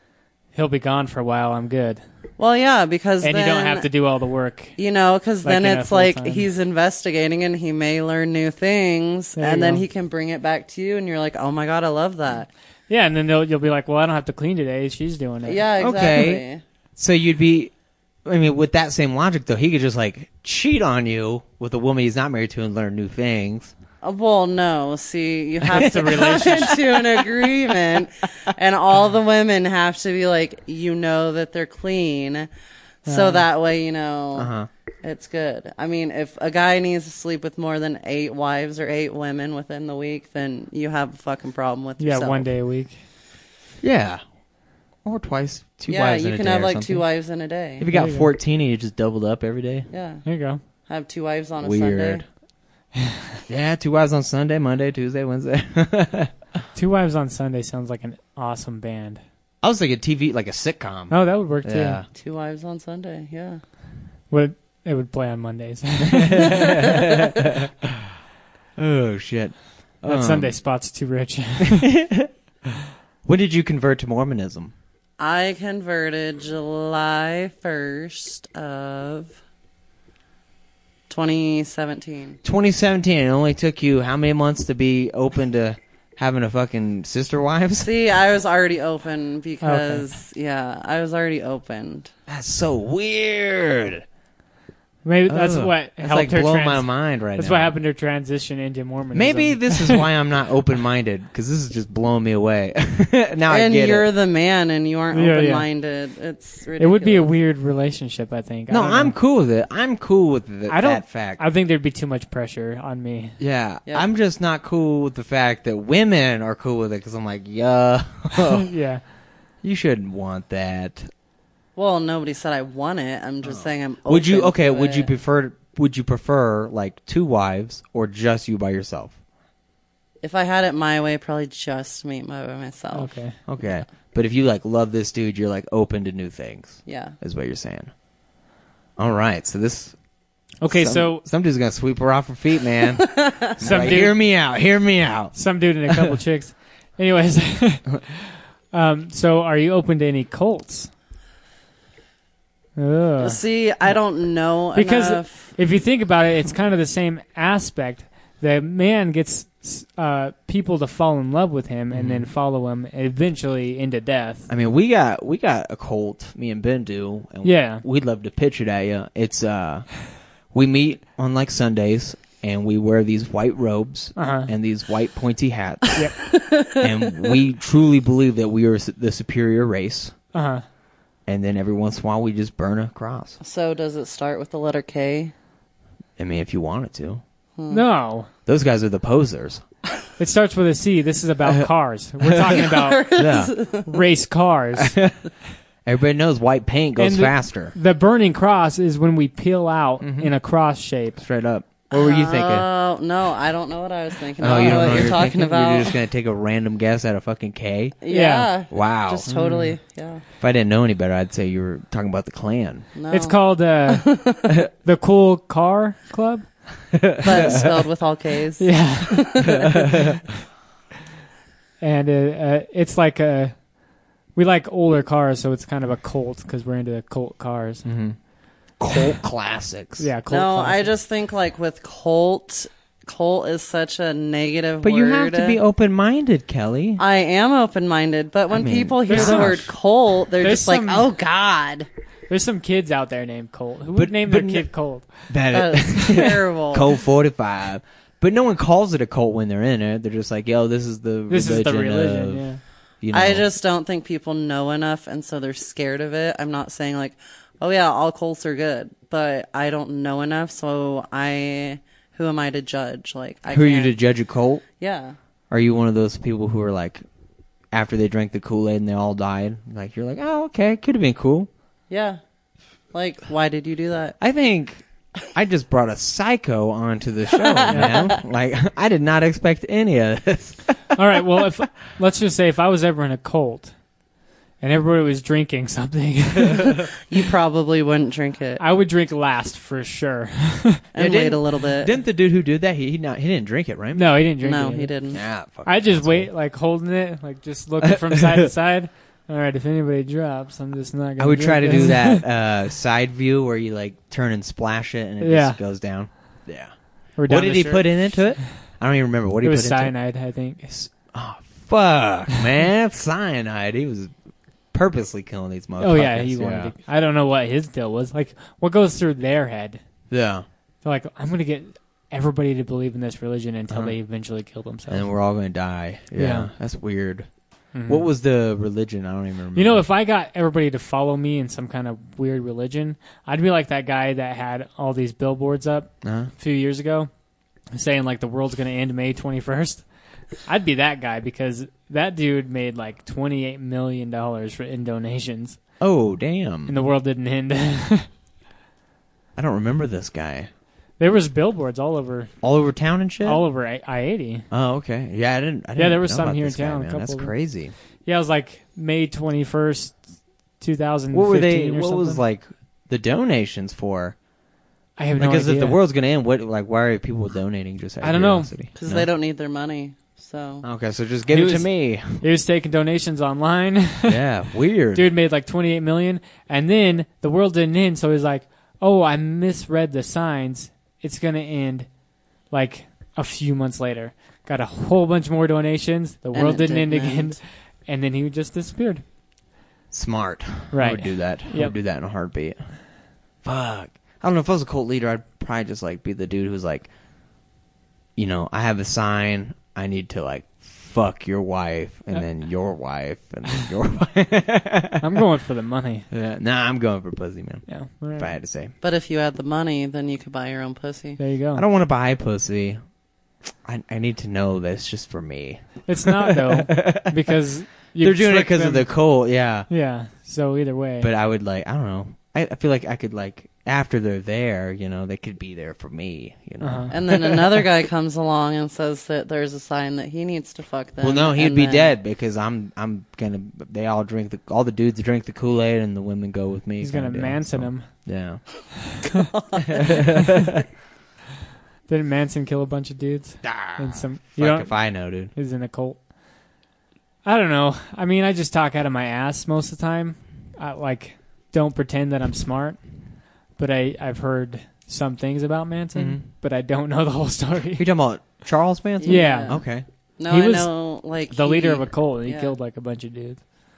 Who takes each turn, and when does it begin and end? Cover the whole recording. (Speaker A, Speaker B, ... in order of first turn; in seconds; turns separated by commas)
Speaker A: 0.5-2.0, Speaker B: 2.4-3.9, Speaker A: 3.2-4.7, Speaker B: 4.8-12.5, Speaker A: 5.4-6.4, Speaker A: 9.4-9.8, Speaker A: 12.9-15.6, Speaker B: 15.4-16.6, Speaker C: 15.8-16.4, Speaker C: 17.0-17.7, Speaker C: 18.2-23.7, Speaker B: 24.0-32.5, Speaker A: 25.7-26.8, Speaker C: 26.1-26.4, Speaker B: 33.0-34.5, Speaker A: 33.1-33.4, Speaker C: 34.3-34.7, Speaker B: 35.0-42.5, Speaker A: 42.0-43.0, Speaker C: 43.8-44.2, Speaker C: 45.0-47.0, Speaker B: 45.9-47.9, Speaker C: 47.8-49.9, Speaker A: 47.9-48.3, Speaker B: 49.9-50.2, Speaker A: 50.2-50.6, Speaker B: 50.9-52.2, Speaker C: 51.6-52.2, Speaker C: 53.5-56.3, Speaker A: 56.7-59.2, Speaker C: 59.6-62.1, Speaker A: 61.1-62.0, Speaker B: 62.1-63.6, Speaker A: 64.3-66.8, Speaker C: 66.1-67.9, Speaker C: 68.8-70.6, Speaker A: 70.1-71.9, Speaker C: 71.8-72.3, Speaker C: 73.2-74.7, Speaker B: 75.2-79.4, Speaker B: 81.1-82.4, Speaker C: 82.4-87.9, Speaker B: 87.8-92.1, Speaker A: 89.6-90.0, Speaker C: 92.3-94.0, Speaker A: 95.0-100.0, Speaker C: 95.3-97.8, Speaker C: 99.1-104.1, Speaker B: 103.5-107.3, Speaker A: 105.1-105.7, Speaker A: 106.8-109.1, Speaker C: 108.7-111.4, Speaker A: 110.7-113.4, Speaker C: 113.4-118.7, Speaker A: 118.5-119.0, Speaker C: 119.6-121.1, Speaker B: 121.8-125.1, Speaker C: 123.4-129.2, Speaker B: 130.2-133.1, Speaker A: 132.9-133.4, Speaker C: 133.5-137.9, Speaker B: 136.8-137.2, Speaker C: 139.0-139.9, Speaker A: 140.6-141.2, Speaker C: 140.7-146.2, Speaker B: 143.0-143.6, Speaker A: 143.6-144.1, Speaker A: 145.3-150.9, Speaker A: 152.8-153.4, Speaker B: 153.2-155.5, Speaker A: 154.8-164.5, Speaker C: 161.9-162.3, Speaker C: 164.5-180.1, Speaker A: 167.4-167.8, Speaker A: 174.2-174.5, Speaker B: 176.3-176.8, Speaker A: 180.3-180.6, Speaker C: 181.3-183.4, Speaker B: 183.4-185.3, Speaker C: 186.2-187.2, Speaker B: 187.6-187.8, Speaker A: 187.7-188.3, Speaker C: 188.4-189.6, Speaker A: 190.2-193.1, Speaker C: 192.2-192.6, Speaker B: 192.6-193.9, Speaker C: 193.1-193.5, Speaker A: 193.8-195.0, Speaker C: 194.8-195.2, Speaker C: 195.8-197.7, Speaker A: 197.0-201.2, Speaker C: 200.0-200.3, Speaker C: 201.2-202.7, Speaker B: 201.9-205.9, Speaker C: 204.4-208.0, Speaker A: 204.5-205.1, Speaker B: 208.0-210.2, Speaker A: 208.1-208.5, Speaker C: 208.7-209.7, Speaker C: 210.4-212.9, Speaker B: 212.9-214.5, Speaker A: 213.1-214.1, Speaker A: 214.8-216.5, Speaker C: 216.9-217.7, Speaker B: 217.2-219.8, Speaker A: 218.6-219.5, Speaker C: 219.5-220.2, Speaker A: 221.8-223.6, Speaker A: 224.3-227.8, Speaker C: 227.8-228.2, Speaker C: 228.8-230.1, Speaker A: 230.0-230.9, Speaker B: 230.3-235.6, Speaker C: 234.8-237.0, Speaker B: 237.0-241.9, Speaker C: 238.5-239.7, Speaker A: 239.1-239.7, Speaker A: 240.4-241.1, Speaker A: 242.3-245.3, Speaker C: 243.9-252.5, Speaker B: 245.5-246.9, Speaker A: 251.3-252.6, Speaker C: 253.0-253.5, Speaker B: 253.1-263.9, Speaker C: 263.5-264.6, Speaker B: 264.8-265.1, Speaker C: 265.5-267.0, Speaker C: 267.7-271.5, Speaker B: 271.9-272.2, Speaker B: 272.9-274.2, Speaker C: 274.2-280.8, Speaker B: 277.4-278.2, Speaker A: 277.7-278.0, Speaker A: 280.9-283.7, Speaker A: 284.6-286.8, Speaker C: 286.4-286.9, Speaker B: 287.0-288.6, Speaker A: 288.6-290.8, Speaker B: 290.9-291.9, Speaker C: 290.9-294.2, Speaker A: 293.9-294.9, Speaker B: 294.4-295.2, Speaker C: 295.1-296.3, Speaker A: 295.6-302.2, Speaker C: 297.8-298.5, Speaker C: 301.2-309.9, Speaker A: 305.2-305.6, Speaker A: 307.2-308.4, Speaker A: 309.4-310.7, Speaker C: 310.7-314.1, Speaker C: 314.7-316.7, Speaker A: 315.8-319.8, Speaker C: 320.1-320.4, Speaker A: 320.8-325.1, Speaker C: 323.7-323.9, Speaker C: 324.9-327.3, Speaker A: 326.1-326.5, Speaker A: 327.7-328.1, Speaker C: 327.9-329.8, Speaker A: 329.5-337.1, Speaker C: 336.0-336.3, Speaker A: 337.7-339.9, Speaker A: 340.4-345.6, Speaker C: 345.8-346.7, Speaker A: 346.6-348.1, Speaker C: 349.4-350.5, Speaker A: 351.0-352.3, Speaker C: 352.4-353.4, Speaker A: 353.2-354.5, Speaker C: 354.5-357.7, Speaker A: 355.8-357.4, Speaker A: 358.1-360.0, Speaker A: 360.6-362.2, Speaker C: 361.1-364.1, Speaker A: 365.0-365.8, Speaker C: 365.2-369.1, Speaker A: 368.0-368.5, Speaker B: 368.8-370.6, Speaker C: 370.6-372.2, Speaker A: 371.3-374.2, Speaker C: 374.1-375.1, Speaker A: 374.9-381.9, Speaker A: 382.5-389.0, Speaker B: 386.3-387.4, Speaker C: 389.9-392.6, Speaker A: 390.7-391.7, Speaker C: 393.4-396.9, Speaker C: 398.1-405.1, Speaker A: 405.0-406.1, Speaker C: 406.1-408.7, Speaker A: 407.7-408.3, Speaker B: 408.8-411.2, Speaker A: 411.2-411.6, Speaker C: 411.5-412.8, Speaker C: 413.6-417.3, Speaker A: 415.9-418.9, Speaker C: 418.0-419.7, Speaker A: 419.7-421.1, Speaker C: 421.0-427.6, Speaker A: 426.6-426.9, Speaker B: 426.9-431.9, Speaker C: 431.0-438.9, Speaker A: 436.8-437.9, Speaker B: 439.2-439.9, Speaker C: 439.7-440.6, Speaker A: 441.9-446.0, Speaker C: 443.4-445.3, Speaker A: 447.2-452.8, Speaker A: 453.6-457.8, Speaker C: 455.9-456.2, Speaker C: 457.8-459.8, Speaker B: 459.0-459.6, Speaker A: 459.1-459.6, Speaker B: 460.2-462.5, Speaker A: 460.3-460.7, Speaker A: 461.3-463.4